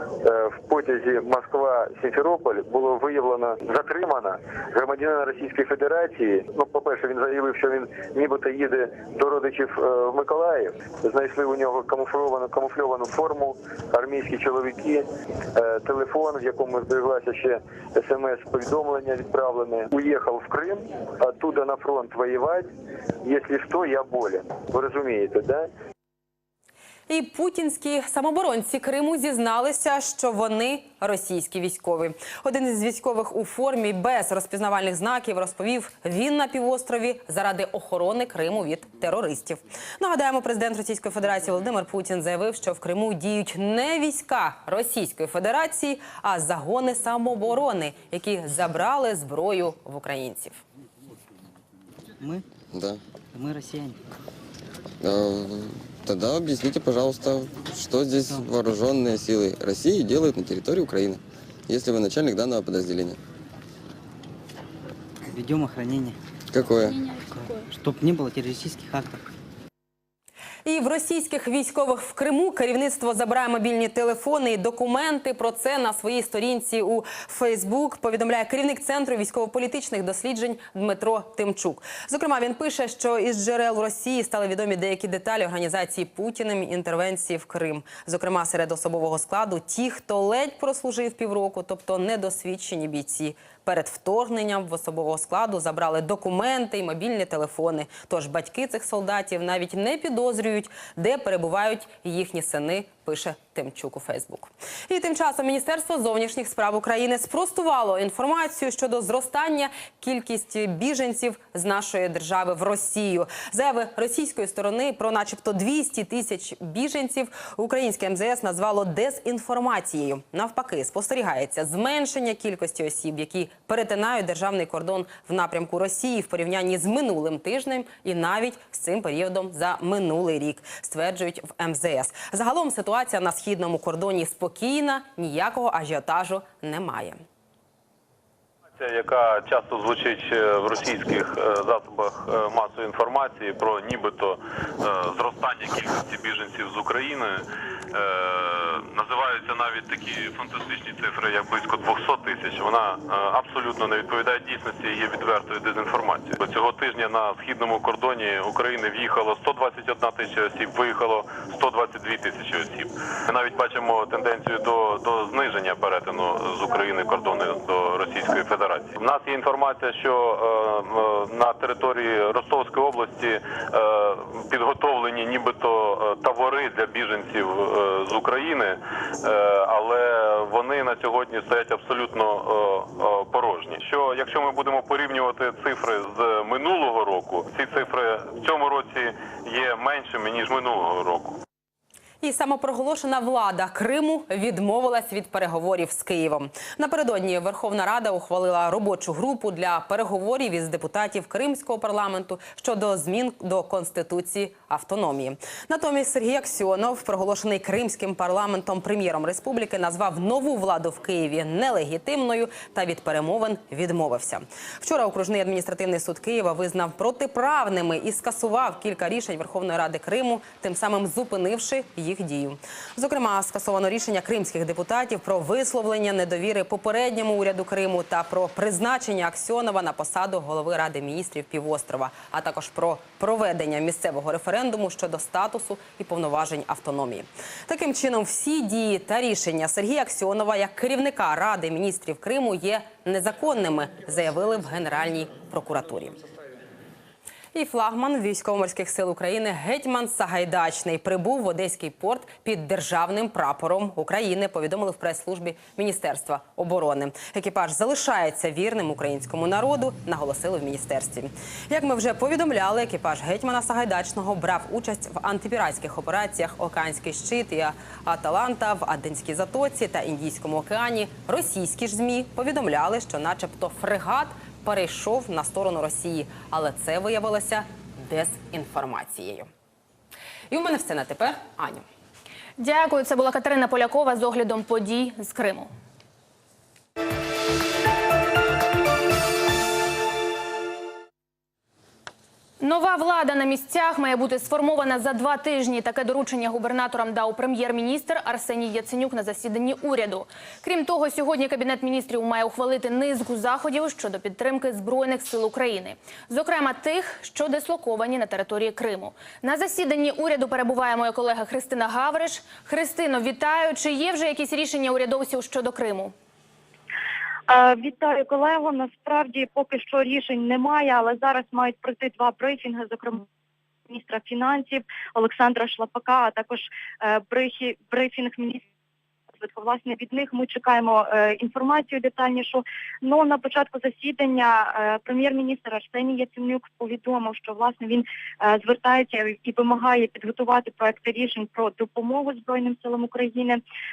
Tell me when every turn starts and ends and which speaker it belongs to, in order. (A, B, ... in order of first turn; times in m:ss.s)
0:00.2-0:22.7 A
0:23.2-0:25.7 A
0:27.1-0:50.6 B
0:52.7-0:53.0 C
0:53.3-0:53.9 D
0:55.0-1:03.2 C
1:05.3-1:06.1 D
1:06.5-1:07.1 C
1:07.3-1:09.1 D
1:10.6-2:17.2 B
2:18.8-3:11.4 E
3:12.2-4:06.2 B
4:07.5-4:39.5 B
4:40.5-4:41.9 B
4:42.6-4:45.7 F
4:52.6-5:16.1 F
5:17.5-5:23.2 G
5:23.9-5:28.6 G
5:29.4-5:43.6 G